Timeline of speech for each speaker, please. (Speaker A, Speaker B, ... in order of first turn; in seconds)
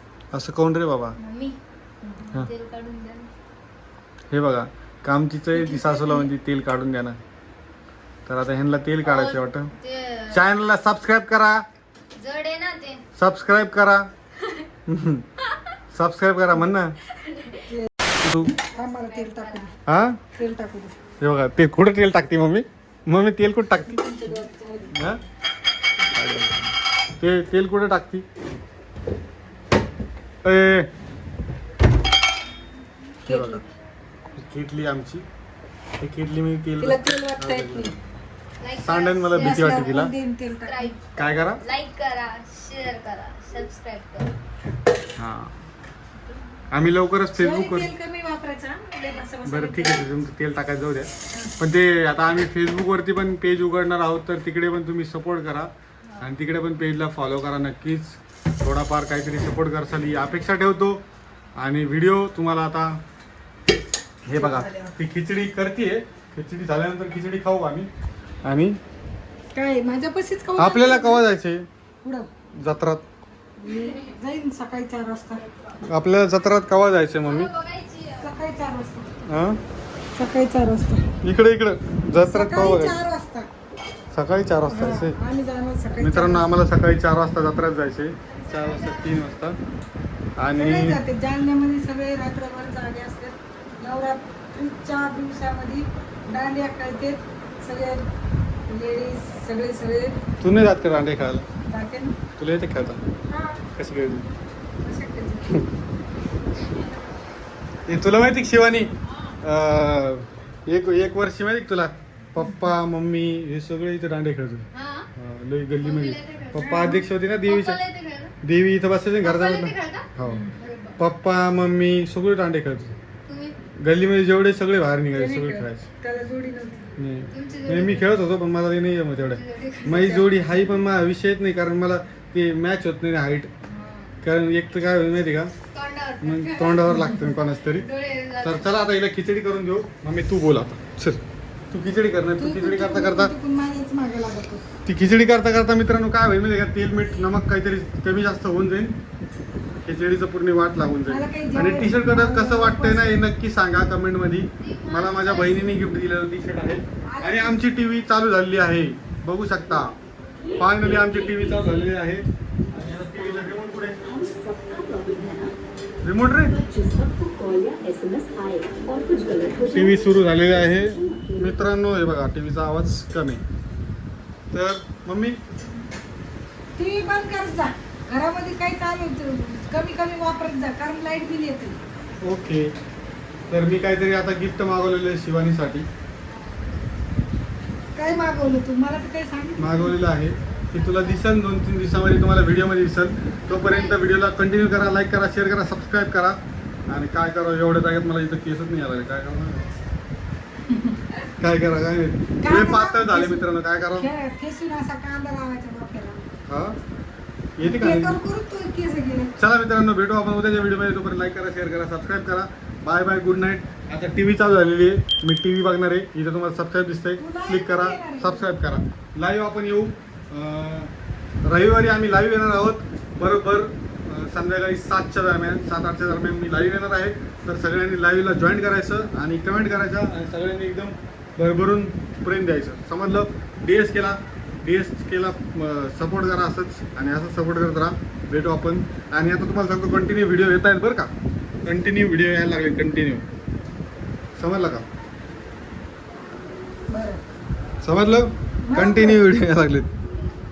Speaker A: 0.3-1.2, 4.3-7.2, 8.3-9.7, 10.3-11.6, 13.2-14.1, 14.9-15.2, 15.9-17.0, 18.2-18.5, 19.9-20.2, 21.2-24.3, 24.9-25.2, 26.1-28.2, 30.4-30.9, 33.3-33.6, 34.4-35.2, 36.0-37.9, 38.8-40.1, 41.2-41.6, 45.2-45.6, 46.7-47.9, 49.5-61.0, 61.6-63.0, 64.2-67.9, 68.4-68.8, 70.6-71.7, 72.6-73.0, 75.9-77.5, 79.3-79.6, 81.2-83.0, 84.1-85.2, 86.0-89.6, 90.4-91.0, 100.4-101.5, 102.4-103.0, 103.8-104.3, 107.9-108.9, 109.4-117.8, 118.4-120.4, 121.0-122.9, 123.8-125.9, 127.0-133.5, 134.2-135.5, 136.2-137.9, 138.4-141.2, 141.7-143.3, 144.8-149.0, 149.8-159.9, 160.6-164.0, 166.0-166.6, 169.7-173.4, 174.5-175.4, 182.2-182.7, 183.5-185.9, 189.6-196.4, 196.9-199.8, 201.4-204.1, 206.5-206.8, 207.6-208.2, 209.4-220.9, 221.4-241.1, 241.7-243.3, 244.4-244.8, 247.8-249.9
Speaker B: 1.2-1.6, 2.2-3.3, 5.8-6.1, 9.0-10.4, 12.2-13.0, 17.2-17.7, 18.8-19.8, 38.6-39.8, 40.6-41.1, 41.6-44.3, 77.2-78.3, 88.3-89.3, 114.7-115.1, 115.8-116.9, 117.4-118.3, 119.2-121.0, 123.3-123.6, 127.3-128.1, 129.2-130.2, 133.7-134.1, 135.7-138.7, 154.6-155.8, 190.7-191.2, 193.5-194.0
Speaker C: 17.7-17.9, 18.6-19.7, 20.3-21.0, 23.9-24.9, 33.3-33.6, 36.8-38.0, 39.4-40.9, 47.4-50.1, 64.3-65.0, 69.5-71.2, 73.6-75.4, 78.2-79.2, 80.2-81.1, 82.2-83.5, 84.7-86.5, 90.5-98.0, 98.7-100.1, 101.7-102.2, 103.3-103.7, 104.8-105.6, 116.7-117.0, 120.3-120.5, 125.1-126.9, 129.9-130.2, 136.9-137.3, 142.4-144.7, 151.1-153.2, 157.1-157.6, 176.8-181.8, 188.0-189.9, 200.7-201.0, 202.4-206.2, 207.6-209.3, 217.2-218.5, 246.9-247.2, 248.6-249.2
Speaker D: 160.6-161.7, 164.1-165.6, 166.6-171.5